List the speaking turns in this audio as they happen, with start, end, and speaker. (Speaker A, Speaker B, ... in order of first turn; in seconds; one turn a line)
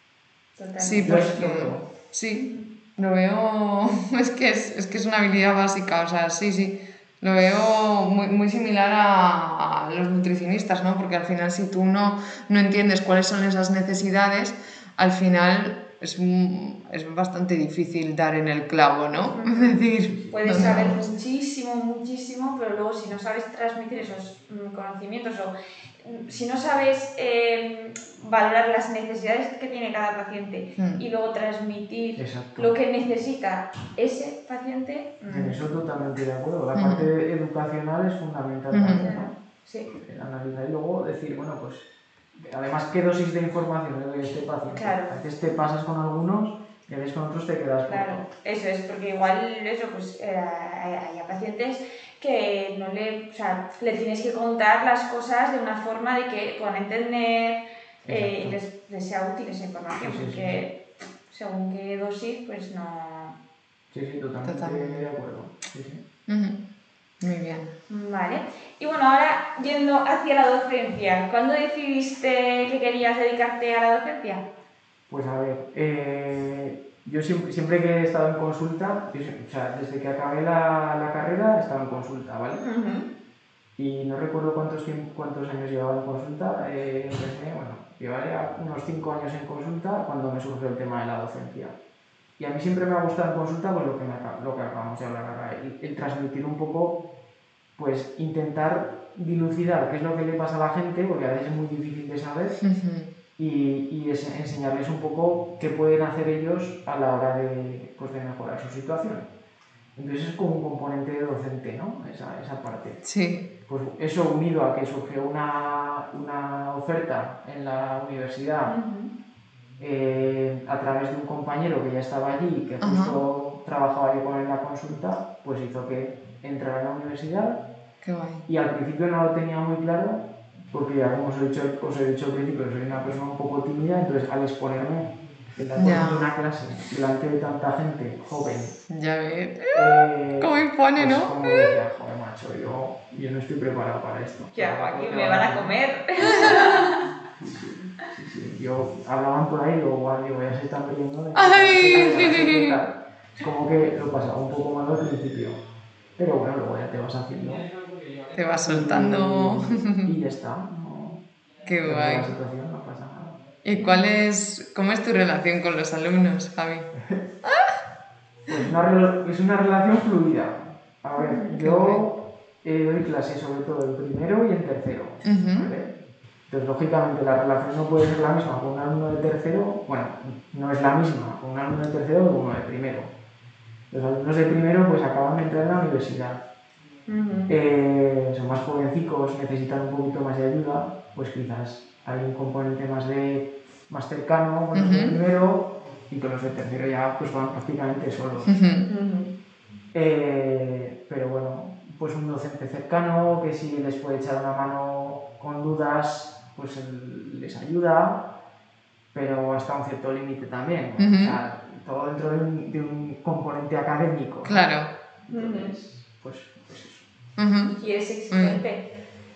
Speaker A: 0.6-1.2
Speaker B: 0.8-21.0
Speaker C: 1.0-1.9
Speaker A: 2.3-2.7
Speaker A: 19.3-19.8
Speaker C: 20.0-21.1
Speaker A: 20.3-35.6
Speaker C: 32.1-32.7
Speaker C: 35.3-39.3
Speaker B: 36.7-37.1
Speaker B: 38.7-39.1
Speaker A: 38.9-39.9
Speaker C: 39.9-48.3
Speaker A: 44.7-45.2
Speaker A: 47.9-63.4
Speaker C: 58.0-58.6
Speaker C: 60.0-60.7
Speaker C: 63.9-66.0
Speaker B: 64.4-65.0
Speaker B: 66.3-66.6
Speaker B: 67.2-67.7
Speaker A: 67.9-74.5
Speaker C: 75.1-82.6
Speaker A: 82.6-83.1
Speaker C: 83.8-91.8
Speaker C: 92.4-97.0
Speaker C: 97.8-102.6
Speaker B: 102.6-103.1
Speaker C: 103.4-109.3
Speaker C: 110.0-113.0
Speaker B: 113.0-113.5
Speaker C: 113.7-118.8
Speaker A: 118.7-119.1
Speaker C: 119.8-127.6
Speaker B: 122.8-123.2
Speaker B: 128.0-128.4
Speaker C: 128.5-138.8
Speaker B: 135.8-136.3
Speaker B: 138.9-141.7
Speaker C: 139.7-146.8
Speaker A: 144.5-147.0
Speaker C: 147.4-155.6
Speaker B: 151.3-152.8
Speaker C: 156.2-157.7
Speaker B: 158.3-160.1
Speaker C: 158.6-161.2
Speaker B: 161.6-162.3
Speaker C: 161.8-163.4
Speaker B: 163.6-166.9
Speaker C: 166.9-167.2
Speaker B: 167.4-167.8
Speaker C: 168.5-175.9
Speaker A: 171.2-171.6
Speaker B: 171.6-172.0
Speaker B: 175.2-175.7
Speaker C: 176.5-183.1
Speaker C: 183.9-186.4
Speaker A: 187.1-187.5
Speaker C: 187.5-198.5
Speaker B: 194.7-195.2
Speaker B: 198.4-198.9
Speaker A: 198.9-199.3
Speaker C: 199.9-208.3
Speaker C: 209.1-214.7
Speaker B: 211.0-211.4
Speaker B: 214.4-214.9
Speaker C: 215.2-217.1
Speaker A: 215.3-215.7
Speaker B: 217.4-217.8
Speaker A: 217.8-218.8
Speaker B: 218.3-218.6